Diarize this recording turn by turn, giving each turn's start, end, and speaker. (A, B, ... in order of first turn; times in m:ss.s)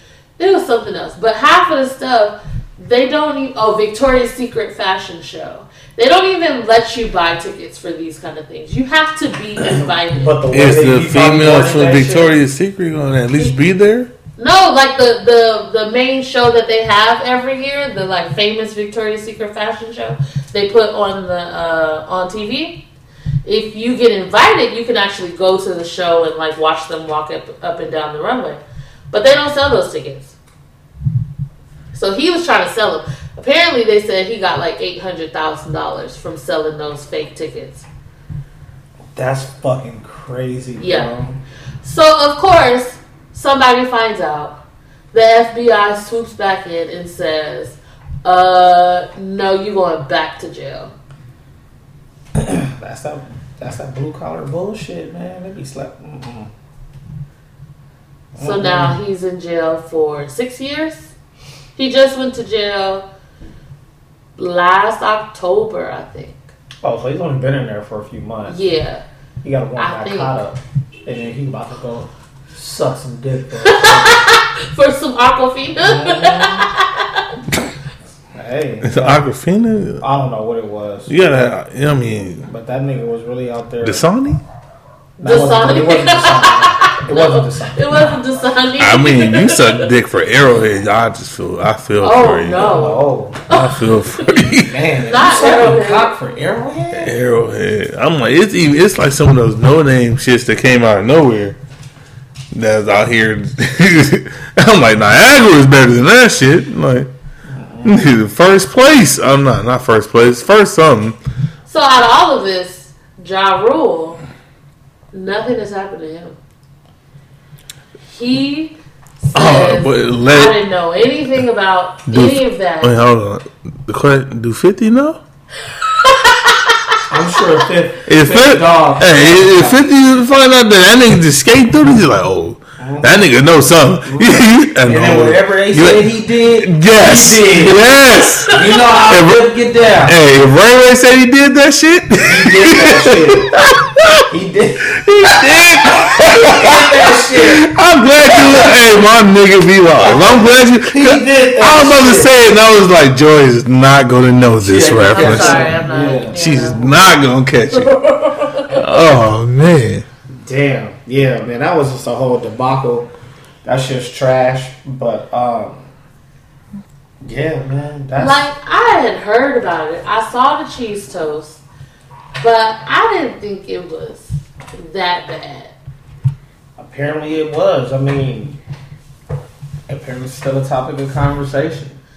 0:00.4-0:10.4 A
0:09.6-0:12.4 B
0:10.5-0:14.1 C
0:14.4-0:22.8 A
0:23.4-0:28.6 A
0:29.1-0:30.3 A
0:31.9-0:37.8 A
0:39.1-0:41.4 B
0:40.8-0:41.1 A
0:41.8-0:44.6 A
0:45.1-0:50.9 A
0:52.3-0:56.5 B
0:58.3-0:59.0 B
0:58.4-1:01.1 A
1:01.8-1:03.0 A
1:04.4-1:06.5 A
1:06.8-1:08.6 B
1:08.4-1:09.0 A
1:09.4-1:14.3 B
1:09.8-1:10.4 A
1:13.6-1:17.2 A
1:15.8-1:16.7 B
1:18.3-1:19.2 B
1:18.8-1:20.0 C
1:20.0-1:21.2 B
1:21.1-1:22.5 C
1:22.5-1:24.0 B
1:23.8-1:24.4 C
1:25.2-1:28.2 B
1:25.2-1:29.9 A
1:28.8-1:32.8 C
1:32.0-1:34.4 A
1:32.5-1:33.4 B
1:33.5-1:34.8 C
1:34.6-1:37.2 B
1:35.0-1:36.1 A
1:37.0-1:41.6 C
1:42.5-1:47.1 C
1:47.5-1:48.1 B
1:47.8-1:51.2 C
1:51.7-1:54.2 A
1:55.1-1:56.4 A
1:58.1-2:02.9 A
1:59.3-2:00.6 C
2:02.1-2:05.2 C
2:06.0-2:07.0 A
2:07.1-2:09.8 B
2:08.1-2:24.2 C
2:12.8-2:13.4 B
2:14.0-2:17.8 B
2:18.5-2:20.2 B
2:22.2-2:23.6 B
2:24.3-2:27.7 B
2:24.9-2:35.8 C
2:30.0-2:32.3 B
2:34.6-2:36.9 B
2:35.0-2:37.0 A
2:36.3-2:37.9 C
2:37.7-2:38.8 A
2:38.7-2:40.0 C
2:40.3-2:43.1 B
2:43.6-2:45.8 B
2:47.2-2:48.4 B
2:48.2-2:51.6 A
2:52.4-2:55.7 A
2:56.8-2:58.6 B
2:59.9-3:02.0 B